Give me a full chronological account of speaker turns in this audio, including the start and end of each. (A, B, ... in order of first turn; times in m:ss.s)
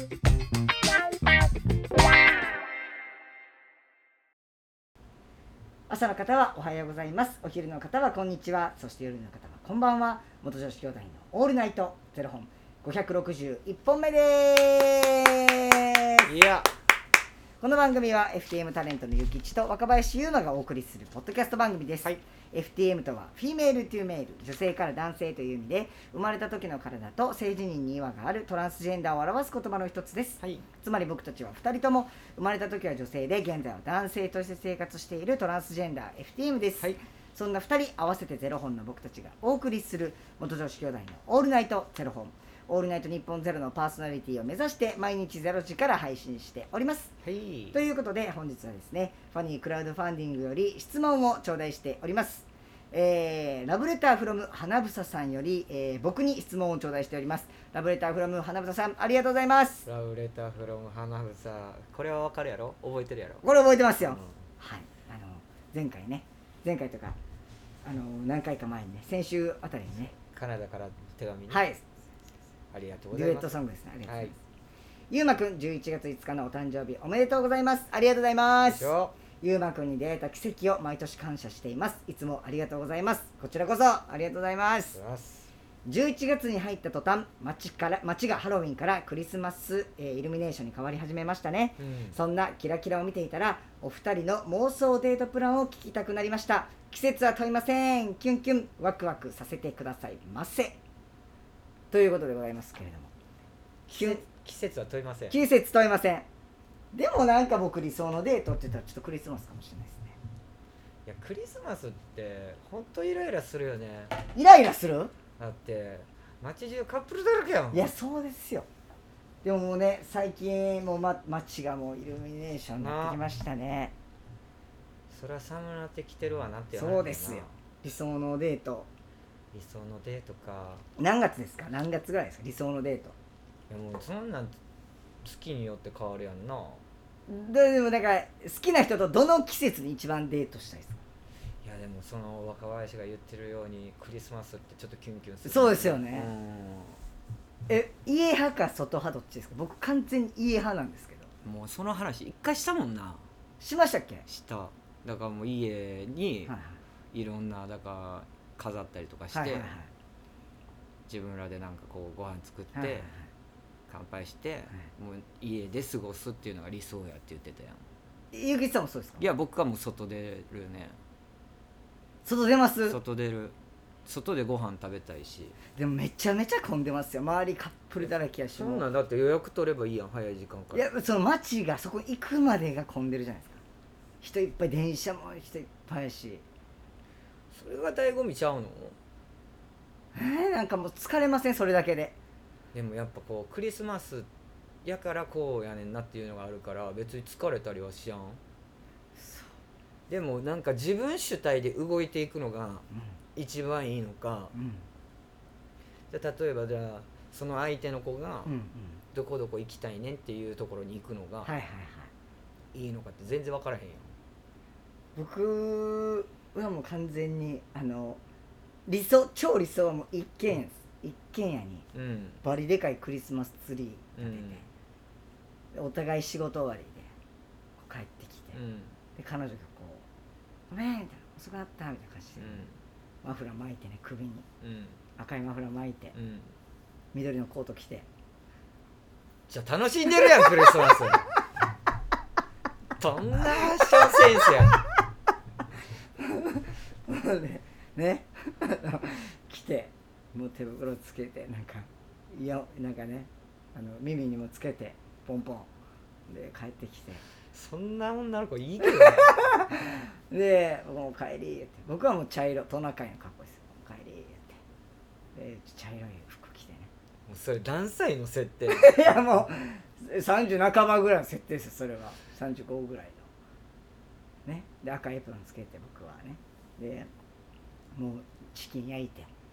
0:05.9-0:16.3 A
0:16.3-0:16.7 B
0:17.6-0:47.1 A
0:47.2-0:47.8 B
0:47.7-0:59.9 A
0:59.9-1:03.4 B
1:03.4-1:07.2 A
1:04.0-1:04.4 B
1:07.8-1:10.1 A
1:10.3-1:11.7 B
1:11.5-1:11.8 A
1:12.7-1:14.3 B
1:13.1-1:14.4 A
1:15.1-1:25.0 A
1:18.6-1:19.2 B
1:24.9-1:25.5 B
1:25.8-1:40.8 A
1:31.8-1:32.2 B
1:41.9-1:43.1 A
1:43.9-1:45.4 B
1:43.9-1:44.2 A
1:45.3-1:46.3 A
1:46.9-1:50.2 A
1:51.1-1:54.1 B
1:54.3-1:55.1 A
1:55.4-1:57.9 B
1:57.7-1:58.7 A
1:59.4-2:03.9 A
2:02.8-2:03.2 B
2:05.1-2:07.5 B
2:06.7-2:08.9 A
2:09.5-2:10.8 B
2:11.0-2:13.2 A
2:13.7-2:14.6 B
2:15.2-2:16.8 B
2:17.3-2:21.0 A
2:21.6-2:27.0 B
2:25.4-2:26.3 A
2:27.7-2:31.3 A
2:31.4-2:33.2 B
2:33.6-2:34.2 A
2:34.3-2:36.5 B
2:36.5-2:36.8 A
2:37.1-2:39.7 B
2:39.3-2:39.9 A
2:41.1-2:43.1 B
2:42.7-2:43.3 A
2:43.9-2:47.8 B
2:48.3-2:49.2 A
2:49.2-2:51.0 B
2:52.2-2:53.0 A
2:52.9-2:53.6 B
2:54.1-2:55.6 B
2:55.8-2:58.9 A
2:58.0-3:00.9 B
3:00.7-3:03.6 A
3:04.2-3:06.4 A
3:07.5-3:09.0 B
3:10.2-3:12.2 A
3:12.7-3:14.3 B
3:14.8-3:18.4 B
3:19.2-3:19.5 A
3:20.1-3:22.8 B
3:23.4-3:24.5 B
3:24.5-3:24.8 A
3:26.1-3:28.5 B
3:28.4-3:29.0 A
3:29.1-3:31.5 B
3:31.4-3:32.1 A
3:32.7-3:34.1 B
3:35.2-3:38.2 A
3:38.9-3:41.9 A
3:41.9-3:42.4 B
3:42.4-3:44.7 A
3:44.2-3:44.6 B
3:45.7-3:47.1 A
3:47.8-3:48.6 A
3:48.5-3:49.0 B
3:49.2-3:50.0 A
3:50.7-3:52.6 A
3:52.4-3:52.8 B
3:53.2-3:54.5 A
3:54.6-3:55.0 B
3:55.2-3:56.1 A
3:56.1-3:56.5 B
3:57.1-3:58.1 A
3:59.5-4:01.3 B
4:03.0-4:04.8 B
4:03.7-4:04.5 A
4:06.2-4:15.7 A
4:16.3-4:17.2 A
4:17.5-4:19.4 B
4:18.8-4:24.6 A
4:25.4-4:26.9 A
4:27.3-4:28.9 B
4:28.7-4:33.2 A
4:34.5-4:37.1 A
4:38.0-4:39.3 A